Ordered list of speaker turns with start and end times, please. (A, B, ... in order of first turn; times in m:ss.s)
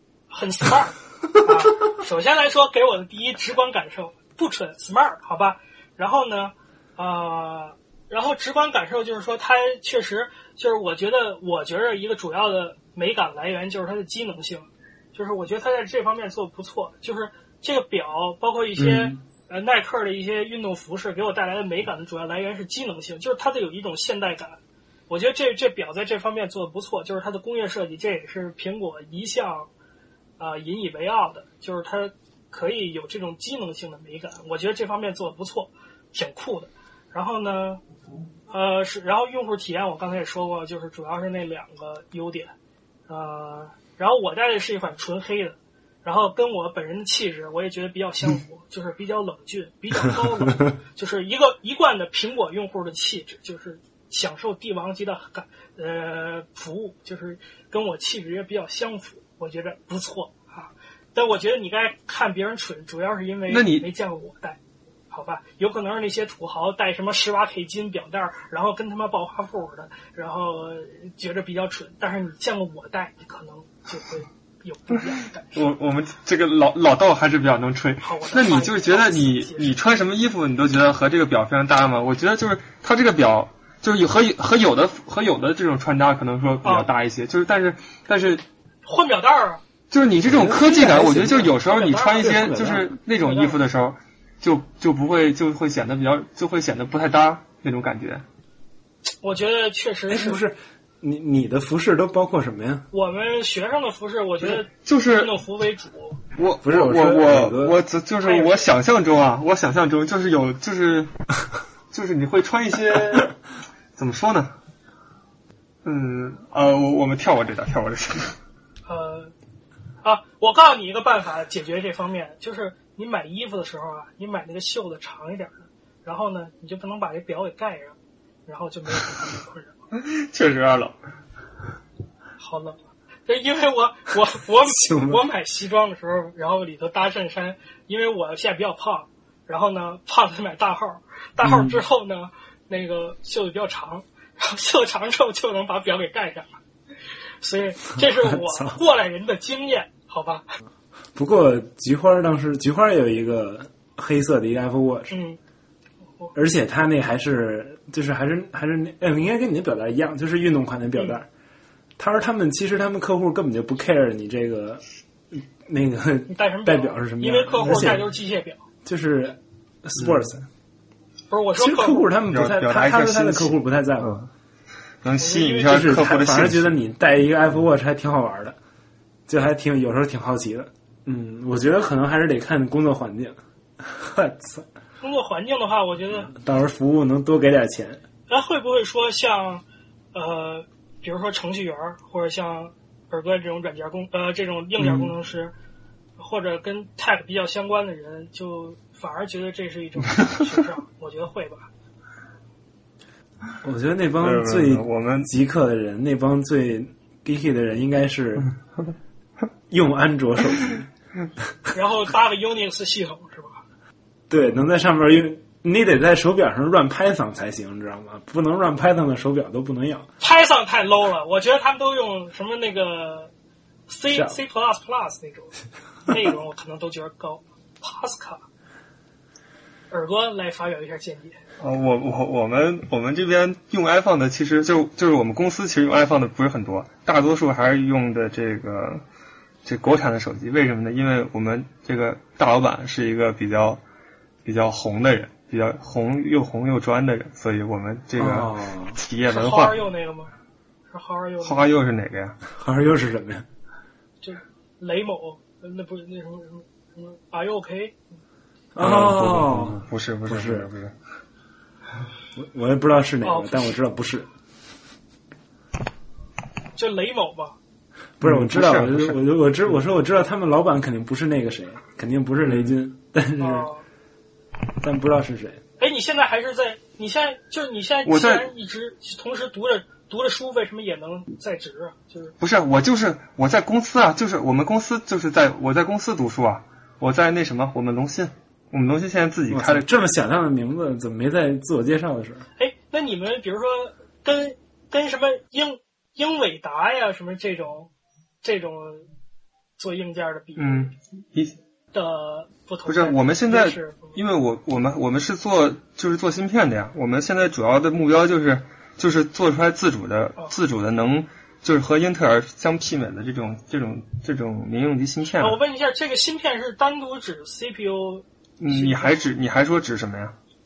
0:00.3-0:24.6 A
0:18.8-0:19.2 B
0:25.1-0:29.7 A
0:30.4-0:37.8 A
0:38.5-0:42.5 A
0:43.1-1:04.6 A
1:03.5-1:03.8 C
1:05.1-1:15.7 A
1:15.5-1:28.4 C
1:18.0-1:19.7 A
1:26.6-1:26.9 A
1:28.8-1:29.6 A
1:29.9-1:38.2 C
1:30.2-1:31.6 B
1:31.6-1:32.5 A
1:32.2-1:32.9 B
1:33.1-1:33.6 A
1:39.2-1:40.4 A
1:40.1-1:42.8 B
1:42.9-1:46.2 A
1:44.4-1:45.3 C
1:46.3-1:51.1 C
1:46.6-1:47.8 B
1:48.2-1:48.7 A
1:51.9-1:53.3 C
1:54.0-1:54.5 C
1:55.8-1:58.3 C
1:58.8-1:59.3 A
2:00.0-2:07.9 A
2:08.4-2:09.7 A
2:09.9-2:11.0 C
2:12.4-2:26.6 A
2:14.7-2:15.2 B
2:21.4-2:21.8 B
2:27.4-2:30.4 A
2:28.0-2:28.8 B
2:31.1-2:35.1 B
2:35.1-2:35.4 A
2:36.3-2:41.3 B
2:42.0-2:44.8 B
2:45.6-2:48.1 B
2:46.3-2:48.6 A
2:48.8-2:50.4 B
2:51.3-2:52.1 A
2:51.6-2:54.2 B
2:52.3-2:54.2 C
2:55.0-2:56.8 C
2:55.2-2:56.0 A
2:55.6-2:58.6 B
2:59.3-3:04.7 B
3:05.0-3:06.3 A
3:06.2-3:08.0 B
3:08.3-3:09.6 A
3:10.1-3:15.5 A
3:16.2-3:21.7 A
3:23.6-3:28.5 B
3:24.2-3:25.3 C
3:29.7-3:30.9 B
3:31.7-3:33.6 A
3:34.3-3:40.1 B
3:40.2-3:43.3 A
3:43.9-3:45.5 A
3:44.1-3:44.4 B
3:46.1-3:48.4 A
3:49.9-3:51.4 A
3:51.6-3:59.0 C
3:59.6-4:03.8 C
4:04.4-4:09.8 C
4:08.2-4:09.0 B
4:09.3-4:10.3 A
4:10.9-4:11.7 A
4:11.4-4:12.4 C
4:12.5-4:13.4 B
4:14.2-4:18.0 A
4:18.7-4:20.7 B
4:18.8-4:20.9 C
4:22.4-4:24.3 B
4:23.2-4:23.7 A
4:26.8-4:27.6 A
4:28.2-4:33.7 B
4:28.2-4:29.7 C
4:32.4-4:32.8 C
4:33.4-4:33.8 A
4:34.8-4:35.6 B
4:35.8-4:42.3 A
4:38.0-4:38.5 C
4:42.4-4:49.9 C
4:49.5-4:52.4 B
4:52.6-4:57.9 A
4:58.4-4:59.0 A
4:59.8-5:00.9 A
5:00.6-5:01.6 C
5:01.9-5:04.2 A
5:02.8-5:15.6 C
5:15.4-5:19.3 A
5:18.6-5:20.3 C